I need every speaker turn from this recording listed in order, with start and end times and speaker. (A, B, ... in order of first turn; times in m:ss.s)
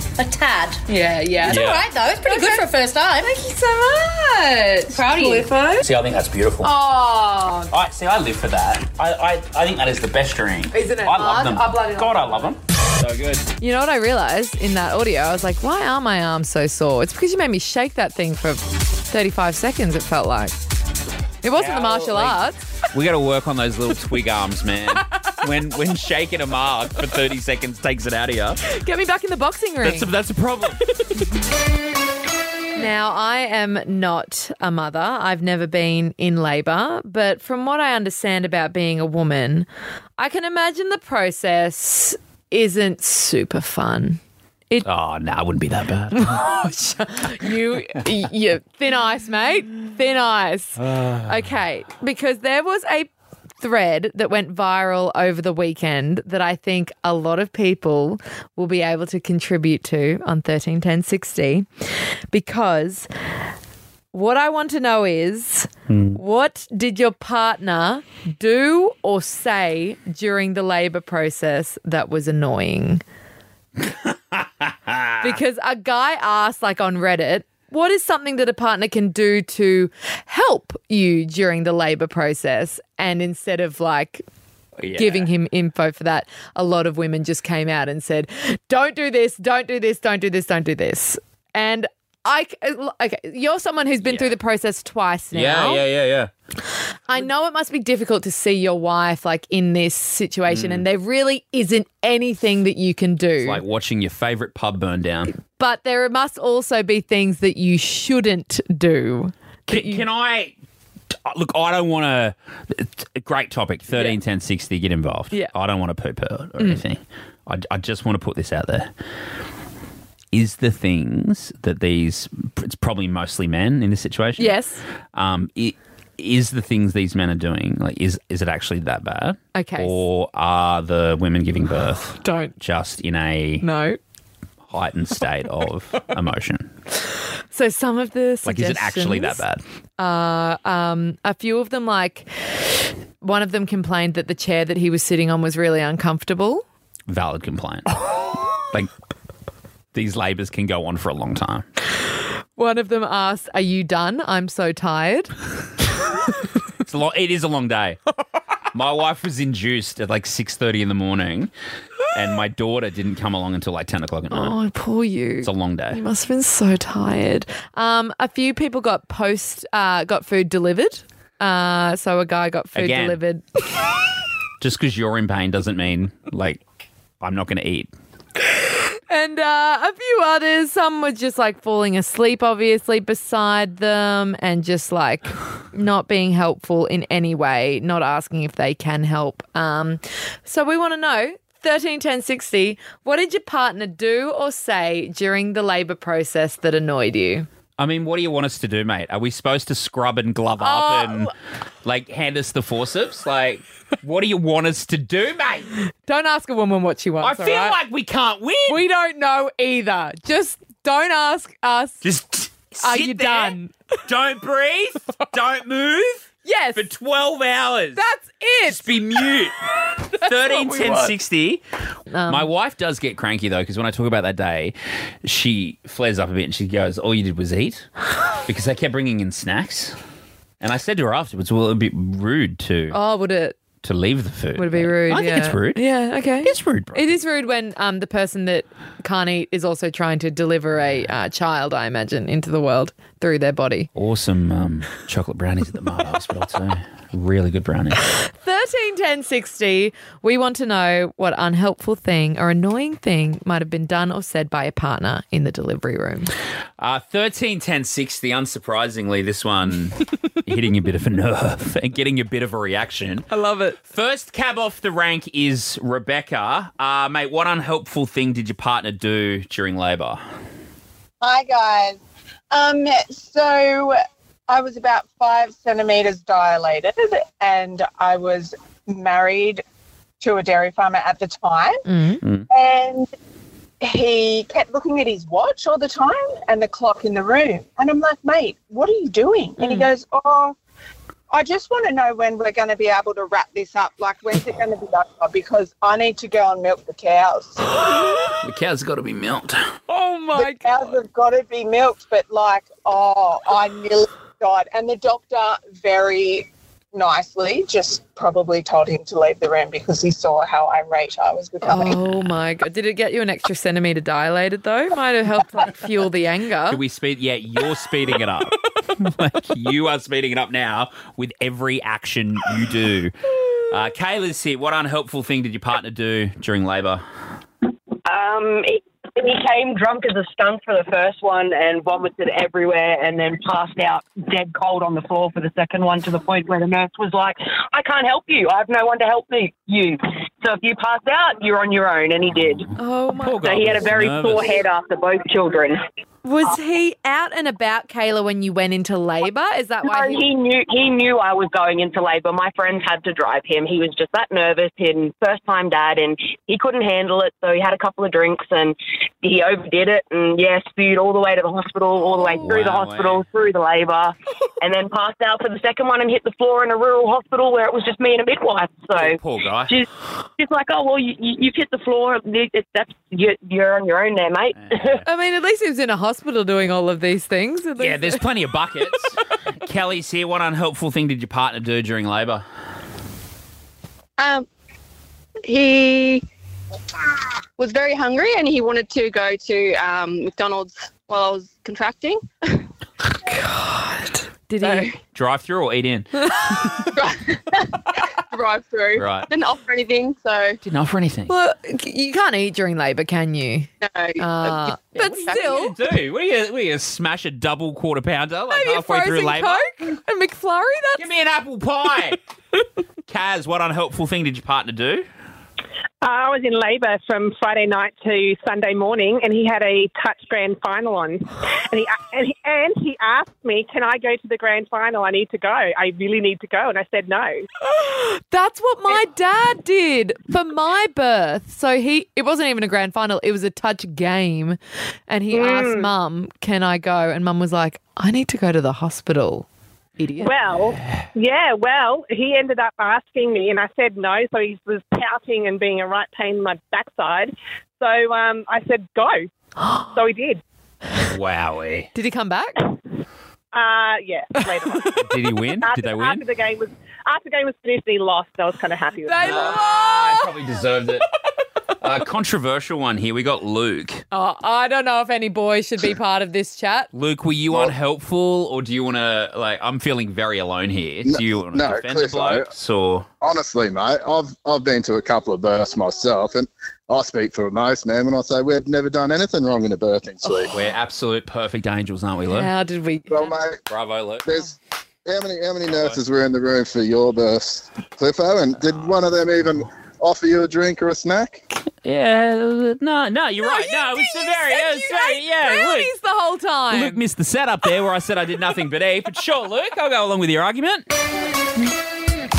0:00.2-0:00.8 A
0:00.9-0:01.6 B
0:01.4-0:01.9 C
0:01.4-0:03.3 A
0:02.2-0:02.7 B
0:03.2-0:05.8 B
0:04.9-0:05.5 A
0:05.8-0:06.7 C
0:06.6-0:07.7 B
0:07.7-0:13.5 C
0:10.7-0:12.4 B
0:13.6-0:20.6 B
0:21.4-0:22.6 B
0:21.5-0:28.6 C
0:28.7-0:30.1 B
0:29.8-0:31.1 C
0:32.8-0:44.9 B
0:44.8-0:46.5 C
0:46.1-0:53.1 B
0:50.8-0:51.4 C
0:53.6-1:01.7 B
1:02.3-1:03.1 B
1:04.1-1:13.0 B
1:05.9-1:06.2 C
1:13.8-1:15.4 C
1:15.2-1:24.2 B
1:24.8-1:25.3 C
1:24.9-1:35.8 B
1:34.0-1:34.3 C
1:35.3-1:36.3 C
1:37.1-1:43.6 B
1:40.5-1:40.8 C
1:43.4-1:45.3 C
1:45.4-1:50.0 B
1:49.7-1:50.5 C
1:51.2-1:58.9 C
1:53.9-1:54.2 B
2:00.3-2:04.5 C
2:04.4-2:04.8 B
2:05.1-2:13.6 C
2:09.5-2:10.0 B
2:12.2-2:12.5 B
2:13.6-2:14.0 B
2:14.7-2:16.7 C
2:17.5-2:19.4 B
2:18.4-2:19.6 C
2:20.0-2:26.6 B
2:27.1-2:28.9 C
2:29.9-2:31.6 C
2:32.6-2:35.3 B
2:36.8-2:38.0 C
2:38.7-2:41.5 C
2:42.1-2:44.6 C
2:44.3-2:53.4 B
2:45.4-2:46.0 C
2:52.8-2:53.2 C
2:54.6-2:56.6 C
2:57.2-2:57.9 C
2:59.1-3:17.5 B
3:17.8-3:21.3 C
3:20.6-3:21.3 B
3:21.8-3:25.7 C
3:26.0-3:27.8 B
3:27.2-3:28.8 C
3:28.7-3:32.0 B
3:32.0-3:38.0 C
3:32.8-3:33.7 B
3:36.4-3:36.9 B
3:37.9-3:38.9 B
3:38.6-3:39.6 C
3:40.1-3:41.6 C
3:40.5-3:41.1 B
3:42.1-3:42.5 B
3:42.3-3:47.9 C
3:48.4-3:50.0 C
3:50.6-3:53.0 C
3:52.9-3:53.6 B
3:53.8-3:55.8 C
3:54.6-4:03.9 B
3:56.4-3:57.1 C
4:04.0-4:08.0 C
4:08.2-4:16.3 B
4:16.8-4:23.3 C
4:23.3-4:23.8 B
4:23.8-4:30.2 C
4:31.2-4:32.0 D
4:32.5-4:39.6 D
4:40.2-4:41.8 D
4:41.8-4:42.2 B
4:42.5-4:43.1 D
4:43.8-4:50.6 D
4:49.6-4:49.9 B
4:51.3-4:58.2 D
4:58.4-4:59.7 C
4:59.9-5:00.7 B
5:00.3-5:12.0 D
5:11.6-5:16.8 B
5:16.7-5:27.0 C
5:28.0-5:42.7 E
5:42.8-5:43.5 B
5:43.2-5:44.6 C
5:43.4-5:45.8 E
5:46.2-5:50.2 B
5:49.8-6:15.0 E
6:02.4-6:03.2 C
6:09.0-6:09.7 C
6:14.6-6:15.0 C
6:15.0-6:18.2 B
6:17.8-6:22.4 C
6:24.2-6:24.4 F
6:25.4-6:26.2 F
6:25.5-6:26.0 D
6:27.6-6:32.2 F
6:33.2-6:34.9 B
6:35.1-6:36.7 C
6:37.0-6:37.3 F
6:38.3-6:40.6 F
6:39.0-6:39.3 C
6:40.6-6:41.3 C
6:41.3-6:45.7 B
6:43.8-6:44.2 F
6:44.9-6:49.9 C
6:48.5-6:51.0 B
6:51.0-6:52.2 C
6:53.1-6:55.0 C
6:56.0-7:07.4 G
7:07.6-7:14.6 B
7:15.1-7:19.4 B
7:15.4-7:15.9 G
7:20.0-7:20.3 B
7:20.2-7:29.3 G
7:29.9-7:30.4 G
7:31.1-7:31.9 C
7:31.9-7:32.6 B
7:33.5-7:39.6 G
7:35.0-7:36.2 C
7:39.0-7:40.3 B
7:39.2-7:41.1 C
7:41.8-7:44.0 C
7:44.1-7:46.9 B
7:46.9-7:53.1 C
7:51.0-7:52.5 H
7:53.2-8:00.5 H
8:00.2-8:00.6 B
8:00.5-8:02.5 C
8:02.3-8:03.3 B
8:03.1-8:03.6 H
8:03.7-8:04.2 C
8:04.2-8:11.4 H
8:05.7-8:06.0 C
8:11.8-8:15.9 C
8:13.4-8:17.0 B
8:16.7-8:20.9 C